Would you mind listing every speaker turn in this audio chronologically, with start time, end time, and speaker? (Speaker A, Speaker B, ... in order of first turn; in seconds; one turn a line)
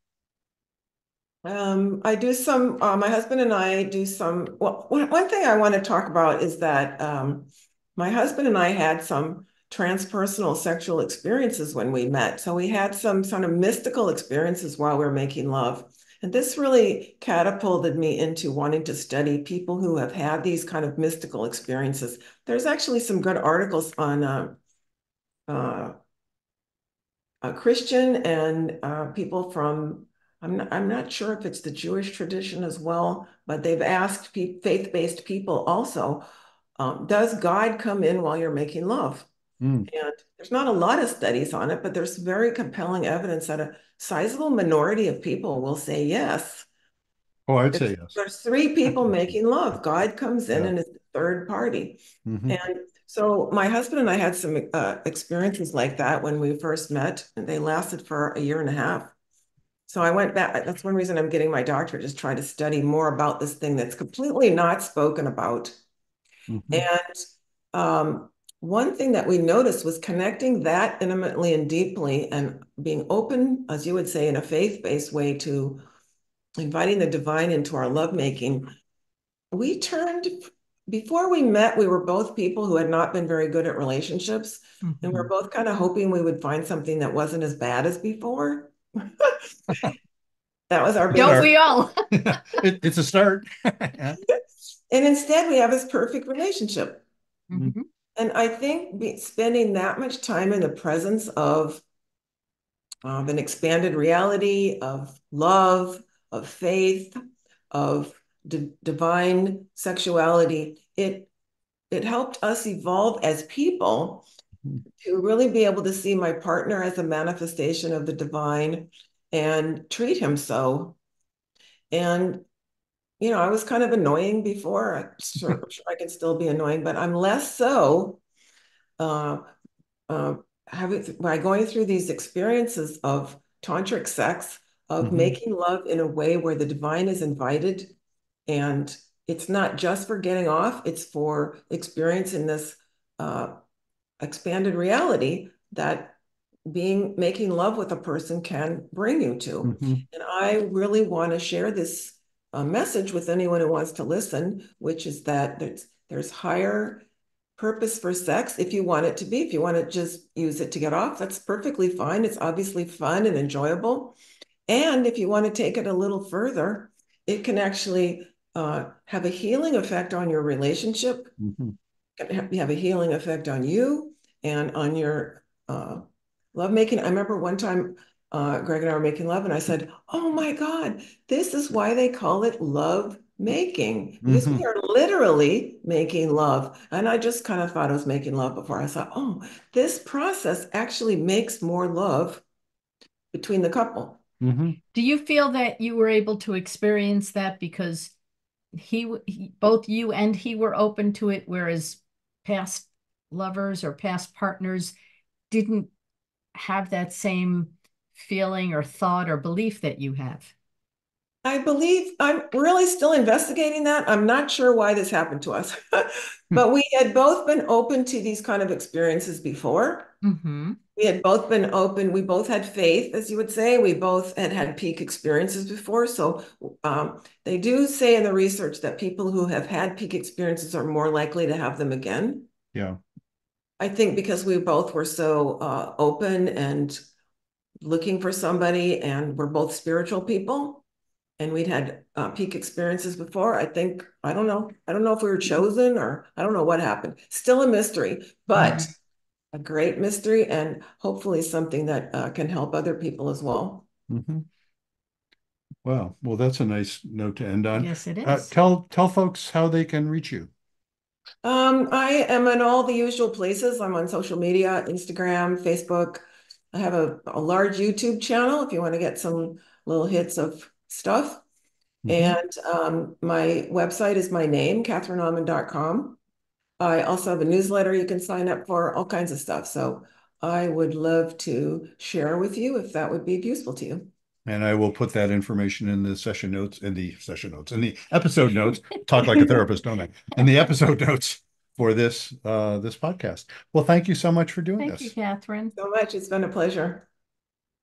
Speaker A: 1.4-24.6
Speaker A: 25.5-25.9
Speaker A: 27.4-36.2
Speaker A: 36.8-39.3
Speaker B: 39.6-39.9
Speaker A: 39.9-46.7
Speaker B: 47.5-48.1
Speaker A: 47.7-59.1
Speaker B: 52.2-52.6
Speaker A: 59.9-65.8
Speaker B: 66.5-66.9
Speaker A: 66.7-67.2
Speaker A: 67.7-75.8
Speaker A: 76.6-78.7
Speaker A: 79.5-89.9
Speaker C: 84.8-85.1
Speaker A: 90.7-91.5
Speaker B: 91.1-91.5
Speaker C: 91.1-92.4
Speaker B: 92.1-94.2
Speaker A: 94.9-97.0
Speaker C: 97.5-97.8
Speaker A: 98.2-101.8
Speaker A: 103.0-107.2
Speaker A: 107.7-111.3
Speaker A: 111.9-114.3
Speaker A: 115.0-121.0
Speaker A: 121.9-122.4
Speaker A: 123.2-128.2
Speaker A: 129.0-129.4
Speaker A: 130.1-137.9
Speaker B: 135.0-135.4
Speaker A: 138.5-143.5
Speaker A: 144.2-157.0
Speaker B: 149.6-150.0
Speaker A: 157.6-164.2
Speaker A: 164.7-171.3
Speaker B: 171.4-171.8
Speaker A: 172.2-192.4
Speaker B: 184.2-184.6
Speaker A: 193.3-194.2
Speaker B: 194.4-194.8
Speaker C: 194.9-198.1
Speaker C: 198.7-204.9
Speaker C: 205.5-205.9
Speaker C: 206.5-210.5
Speaker A: 211.4-220.1
Speaker C: 220.2-220.8
Speaker A: 220.9-232.5
Speaker B: 232.7-233.0
Speaker A: 233.8-237.0
Speaker A: 237.8-240.8
Speaker A: 241.4-248.9
Speaker C: 248.6-248.9
Speaker A: 249.5-253.9
Speaker B: 254.1-254.4
Speaker B: 255.8-260.5
Speaker C: 257.8-258.5
Speaker A: 261.4-271.4
Speaker B: 272.0-272.4
Speaker A: 272.1-276.2
Speaker A: 276.8-284.1
Speaker B: 284.4-295.1
Speaker C: 294.8-295.8
Speaker A: 295.8-297.1